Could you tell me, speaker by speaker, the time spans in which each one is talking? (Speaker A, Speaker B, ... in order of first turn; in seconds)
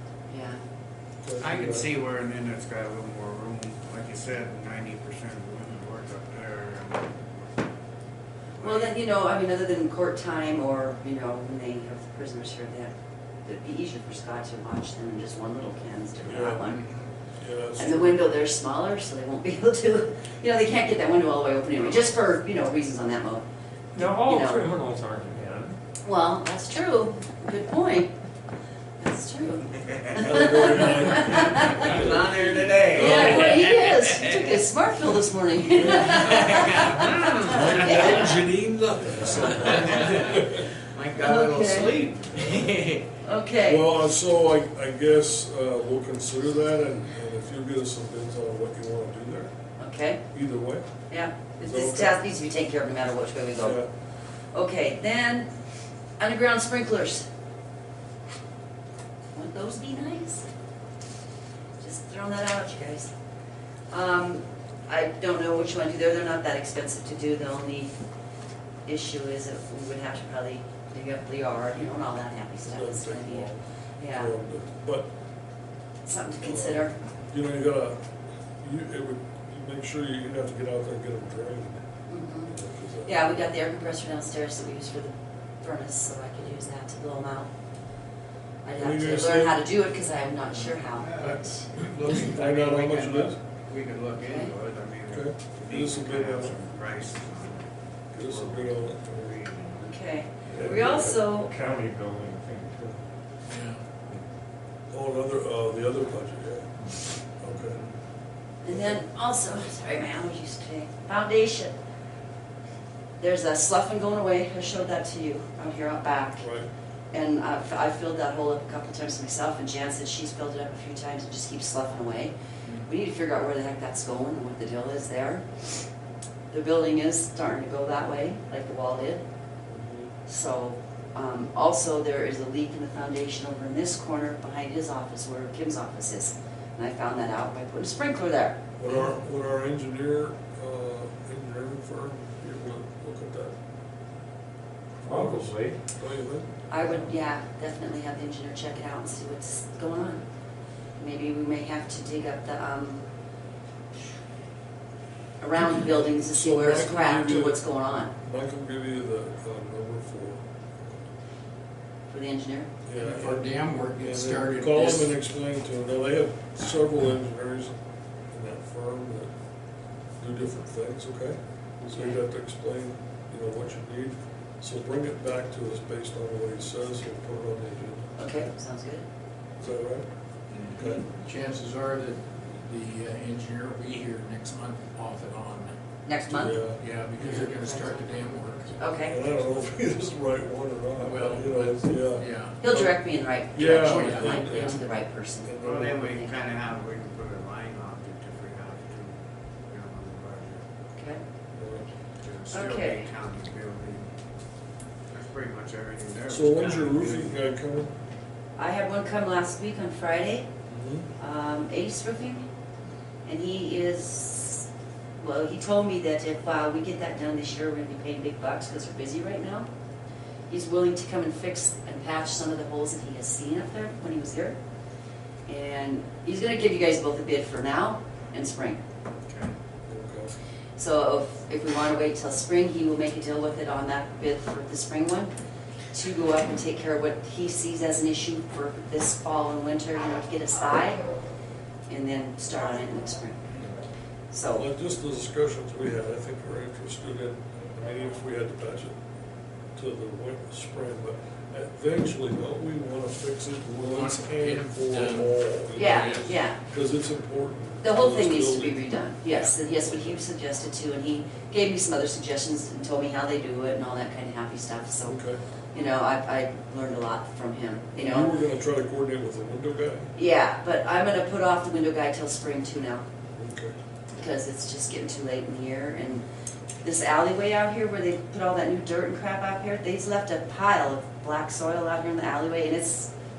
Speaker A: 0.3-0.6, 8.6-12.9, 13.4-16.9, 17.8-23.4, 24.2-24.6, 26.0-28.1, 29.0-31.9, 32.9-38.4, 41.2-42.0, 43.2-43.9, 49.8-50.2, 51.1-53.8, 54.5-55.5, 56.2-57.3, 59.3-60.5, 61.8-63.1, 63.9-67.9, 68.9-74.3, 76.0-76.9, 82.1-82.5, 83.0-87.5, 88.7-91.1, 92.0-93.3, 94.2-94.5, 99.8-101.5, 108.6-111.7, 113.2-116.5, 117.1-122.3, 122.8-125.8, 126.5-129.2, 130.3-139.0, 146.7-150.2, 151.0-153.0, 155.4-158.1, 162.1-162.7, 178.2-179.1, 186.1-186.6, 187.2-188.0, 188.8-189.2, 192.6-196.4, 200.9-201.2, 202.5-203.1, 208.6-210.5, 211.2-212.4, 213.2-214.7, 215.2-219.7, 220.5-224.6, 225.5-228.8, 230.8-235.3, 235.9-241.0, 241.9-243.4, 244.3-244.7, 255.8-256.6, 257.8-265.2, 265.7-268.4, 270.2-273.1, 274.1-276.2, 276.8-283.1
Speaker B: 1.2-1.9, 16.2-16.7, 17.4-18.4, 30.1-33.6, 38.9-40.7, 43.6-49.5, 50.3-50.9, 51.6-52.2, 53.6-53.9, 72.7-73.6, 74.1-75.1, 76.4-78.0, 78.6-81.8, 82.5-83.4, 88.8-89.6, 91.9-93.4, 95.1-96.6, 98.1-99.3, 104.9-106.7, 107.4-107.8, 108.7-109.0, 116.4-116.7, 129.7-130.1, 138.8-143.6, 145.0-146.5, 156.1-157.6, 158.2-160.9, 162.9-167.8, 168.3-169.3, 170.2-178.5, 179.6-180.1, 180.8-181.1, 186.3-186.8, 189.1-193.0, 193.5-194.8, 195.4-196.2, 201.6-201.8, 206.3-207.9, 210.7-211.1, 229.9-230.4, 244.5-248.9, 249.8-258.8, 259.8-260.2, 265.1-265.4, 268.0-270.1, 273.3-273.8
Speaker C: 1.4-7.7, 8.6-8.9, 31.6-34.6, 35.9-43.1, 91.0-91.4, 93.7-97.7, 98.2-99.9, 195.6-199.2, 199.7-200.6, 202.2-204.1, 205.1-207.3, 229.2-229.6
Speaker D: 23.9-25.8, 37.5-38.6, 100.5-102.8, 145.0-145.8
Speaker E: 90.6-92.1, 103.5-103.8, 162.9-165.1, 181.2-185.8, 186.8-188.8, 191.0-192.6, 193.9-194.5, 253.9-256.3